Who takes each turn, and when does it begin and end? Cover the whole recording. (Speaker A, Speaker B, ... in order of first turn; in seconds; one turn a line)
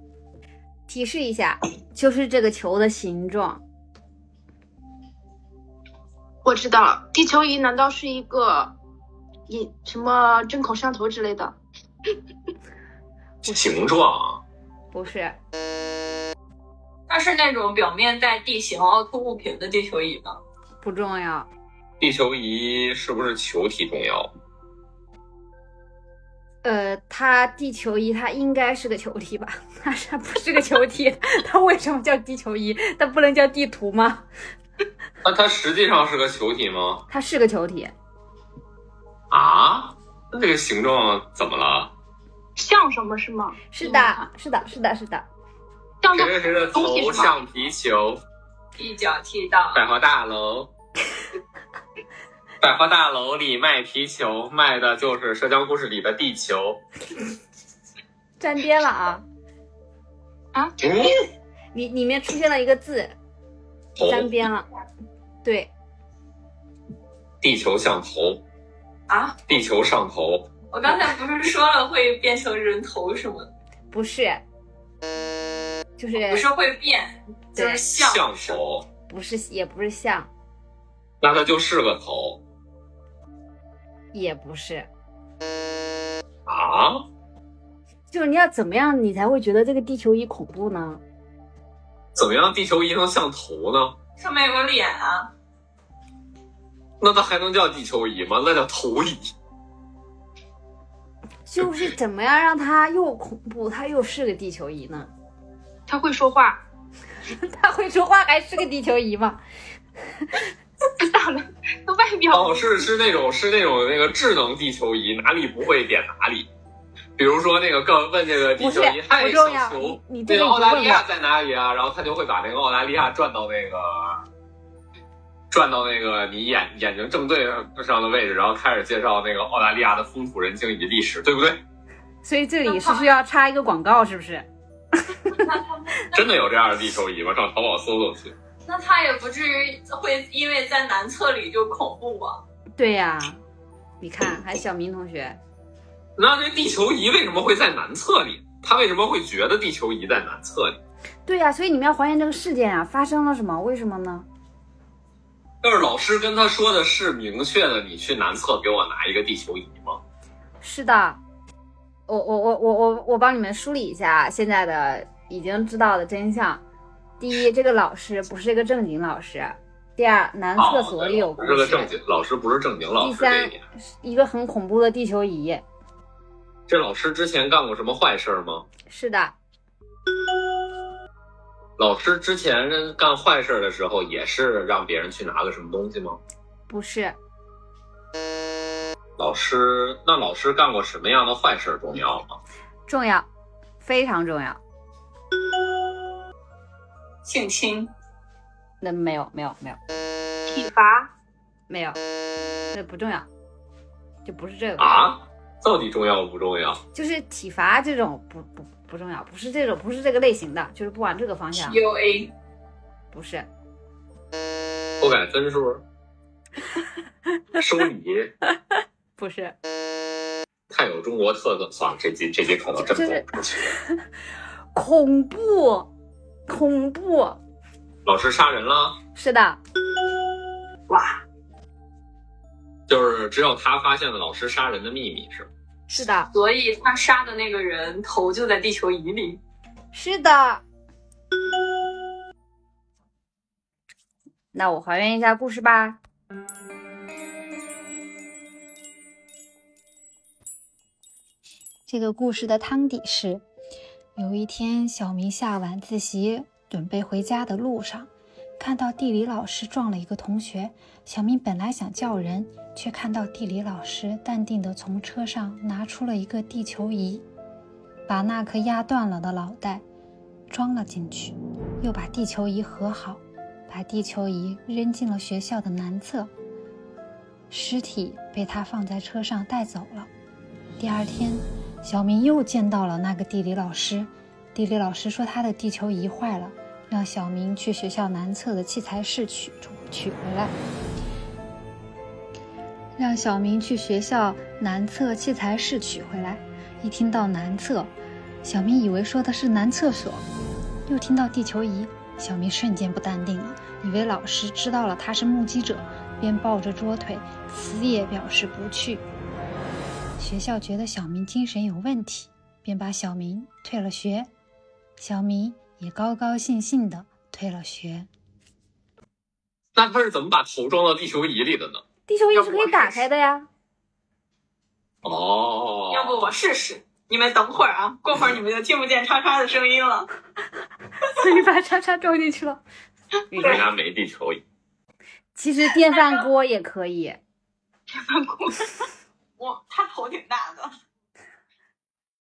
Speaker A: 0.9-3.6
Speaker B: 6.5-8.7
Speaker B: 9.5-11.6
Speaker C: 13.4-14.4
Speaker A: 14.9-15.4
Speaker D: 17.1-20.4
Speaker A: 20.8-21.5
Speaker C: 22.0-24.3
Speaker A: 26.6-34.3
Speaker C: 35.2-37.0
Speaker A: 37.1-37.9
Speaker C: 39.3-41.9
Speaker B: 42.6-43.6
Speaker A: 43.7-45.3
Speaker B: 46.0-47.3
Speaker C: 46.1-48.2
Speaker D: 48.8-49.8
Speaker C: 49.7-50.7
Speaker C: 52.6-56.8
Speaker A: 58.4-59.2
Speaker B: 60.5-61.1
Speaker C: 60.8-61.1
Speaker A: 61.7-63.1
Speaker C: 64.0-64.3
Speaker A: 64.0-64.7
Speaker A: 65.4-65.7
Speaker C: 67.4-68.4
Speaker D: 69.1-69.4
Speaker C: 69.5-70.5
Speaker D: 70.7-73.5
Speaker A: 73.9-74.4
Speaker A: 76.0-76.5
Speaker D: 76.2-78.6
Speaker A: 77.6-77.8
Speaker C: 78.0-78.9
Speaker A: 79.1-80.3
Speaker C: 81.2-82.4
Speaker A: 84.1-84.9
Speaker C: 86.5-87.0
Speaker A: 88.1-91.0
Speaker C: 92.2-94.0
Speaker D: 94.2-95.3
Speaker C: 97.0-99.3
Speaker A: 101.5-105.1
Speaker B: 105.9-106.6
Speaker A: 107.3-109.4
Speaker B: 111.0-112.9
Speaker C: 112.3-116.5
Speaker C: 117.2-124.2
Speaker A: 118.5-121.0
Speaker C: 125.5-131.6
Speaker A: 132.2-134.5
Speaker D: 132.7-133.1
Speaker D: 135.4-136.3
Speaker C: 136.1-138.3
Speaker D: 138.7-142.4
Speaker A: 142.8-143.4
Speaker A: 144.0-145.4
Speaker C: 146.2-150.8
Speaker A: 151.3-154.3
Speaker C: 155.6-160.0
Speaker A: 160.6-161.2
Speaker A: 162.1-166.6
Speaker A: 167.2-172.0
Speaker C: 170.6-173.6
Speaker A: 173.0-175.7
Speaker C: 176.7-178.7
Speaker A: 178.9-179.4
Speaker C: 181.8-186.2
Speaker A: 186.7-187.2
Speaker C: 189.2-192.4
Speaker A: 192.9-193.3
Speaker A: 193.8-194.6
Speaker D: 197.2-197.9
Speaker A: 198.8-199.8
Speaker B: 200.5-201.1
Speaker A: 201.7-202.0
Speaker A: 202.7-203.3
Speaker A: 204.2-205.1
Speaker C: 204.8-206.8
Speaker A: 206.9-211.8
Speaker D: 211.5-212.3
Speaker A: 213.1-213.5
Speaker C: 215.0-215.8
Speaker C: 217.6-218.3
Speaker A: 219.2-219.6
Speaker C: 220.7-223.7
Speaker A: 222.8-224.0
Speaker A: 224.7-225.9
Speaker A: 226.5-227.4
Speaker C: 228.1-229.0
Speaker A: 229.2-229.6
Speaker D: 230.9-231.2
Speaker C: 232.9-235.5
Speaker A: 235.9-236.3
Speaker D: 236.3-239.4
Speaker A: 239.9-240.6
Speaker A: 244.5-246.0
Speaker E: 251.9-253.4
Speaker E: 254.2-267.2
Speaker E: 268.1-269.8
Speaker E: 270.5-276.3
Speaker E: 277.5-280.1
Speaker E: 280.8-290.6
Speaker E: 293.0-297.9
Speaker E: 298.4-300.2
Speaker E: 300.9-309.1
Speaker E: 310.2-314.3
Speaker E: 315.0-318.1
Speaker C: 319.8-321.8
Speaker A: 322.1-323.5
Speaker D: 322.3-323.0
Speaker C: 325.0-326.3
Speaker D: 325.9-330.1
Speaker A: 331.1-332.6
Speaker A: 333.3-333.6
Speaker C: 333.4-334.4
Speaker A: 335.4-337.2
Speaker D: 335.9-336.2
Speaker B: 337.9-338.9
Speaker D: 339.4-340.7